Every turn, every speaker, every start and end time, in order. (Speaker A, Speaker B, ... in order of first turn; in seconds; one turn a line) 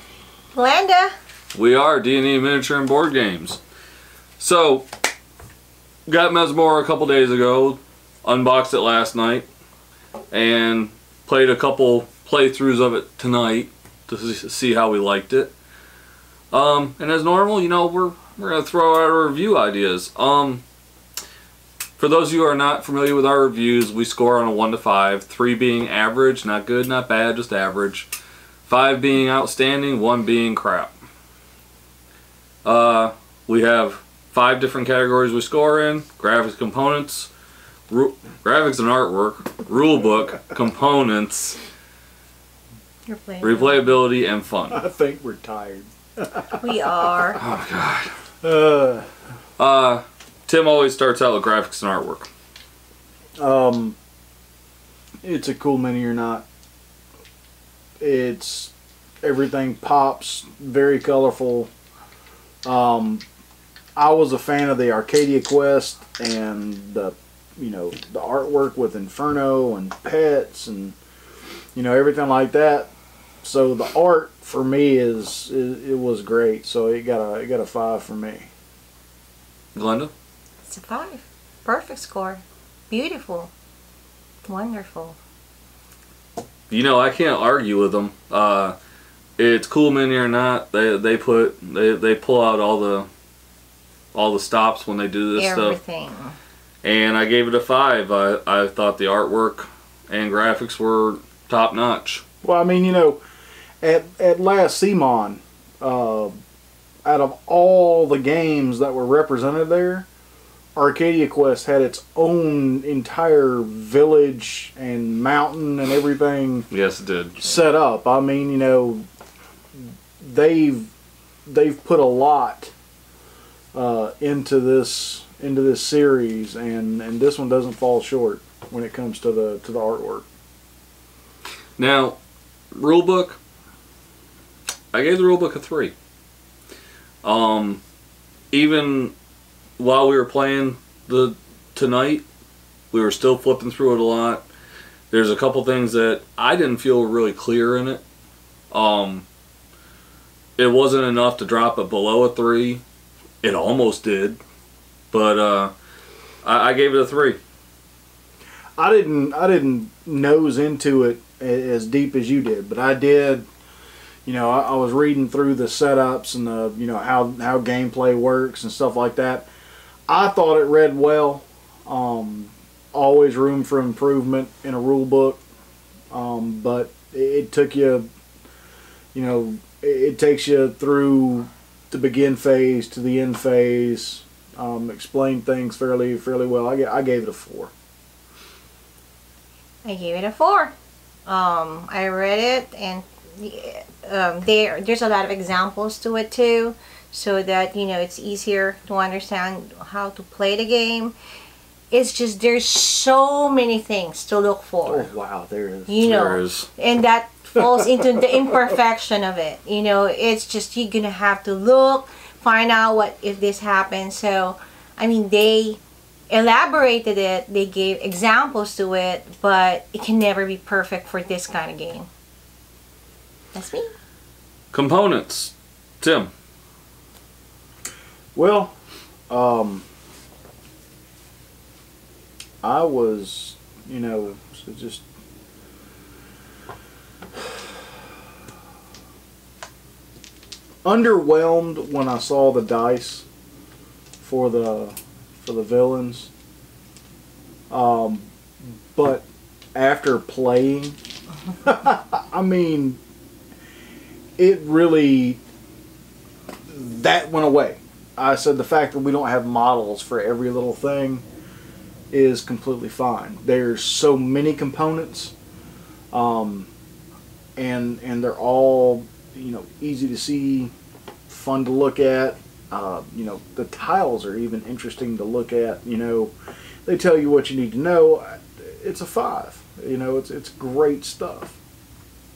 Speaker A: 0.5-1.1
Speaker B: 1.5-3.6
Speaker B: 4.4-4.8
Speaker B: 6.1-9.5
Speaker B: 10.3-15.5
Speaker B: 16.5-20.6
Speaker B: 22.0-28.1
Speaker B: 28.7-30.9
Speaker B: 32.6-37.3
Speaker B: 37.9-41.6
Speaker A: 43.1-44.0
Speaker B: 43.4-44.8
Speaker C: 44.7-46.6
Speaker A: 46.6-47.4
Speaker B: 47.4-48.1
Speaker C: 48.4-49.1
Speaker B: 49.6-52.3
Speaker C: 53.4-54.0
Speaker C: 55.2-56.5
Speaker C: 58.0-58.7
Speaker C: 59.2-61.7
Speaker C: 62.6-63.2
Speaker C: 64.0-71.0
Speaker C: 71.8-72.9
Speaker C: 73.4-78.5
Speaker B: 79.8-80.1
Speaker A: 80.7-83.5
Speaker A: 84.5-85.2
Speaker B: 86.7-88.8
Speaker B: 89.4-93.1
Speaker B: 94.1-95.8
Speaker A: 95.4-96.4
Speaker B: 96.8-102.2
Speaker C: 102.4-103.2
Speaker C: 103.8-106.4
Speaker C: 107.0-110.1
Speaker C: 110.8-116.7
Speaker B: 116.7-117.5
Speaker C: 117.4-119.0
Speaker C: 120.2-120.9
Speaker C: 121.5-122.7
Speaker C: 123.7-130.3
Speaker B: 131.8-132.2
Speaker B: 132.7-133.4
Speaker B: 134.9-135.9
Speaker B: 137.2-137.8
Speaker B: 138.5-139.1
Speaker B: 139.8-142.3
Speaker B: 142.9-144.4
Speaker B: 145.1-148.0
Speaker B: 148.7-149.2
Speaker B: 150.6-152.8
Speaker B: 153.4-154.4
Speaker B: 155.1-155.7
Speaker B: 156.4-157.4
Speaker C: 158.8-163.5
Speaker C: 164.3-169.5
Speaker C: 170.1-175.4
Speaker C: 176.1-178.1
Speaker C: 179.1-187.7
Speaker A: 189.8-190.8
Speaker A: 191.3-201.2
Speaker A: 201.9-205.1
Speaker C: 204.9-206.0
Speaker A: 205.9-222.1
Speaker B: 206.0-206.7
Speaker A: 223.5-223.9
Speaker B: 224.7-226.3
Speaker C: 228.3-228.7
Speaker C: 229.3-229.8
Speaker C: 232.6-235.1
Speaker C: 240.8-243.2
Speaker C: 244.2-246.3
Speaker C: 247.7-251.0
Speaker C: 251.6-253.0
Speaker C: 254.4-255.4
Speaker C: 256.7-261.2
Speaker C: 262.1-265.3
Speaker C: 266.1-266.7
Speaker C: 267.6-270.7
Speaker C: 271.3-276.3
Speaker C: 276.9-281.6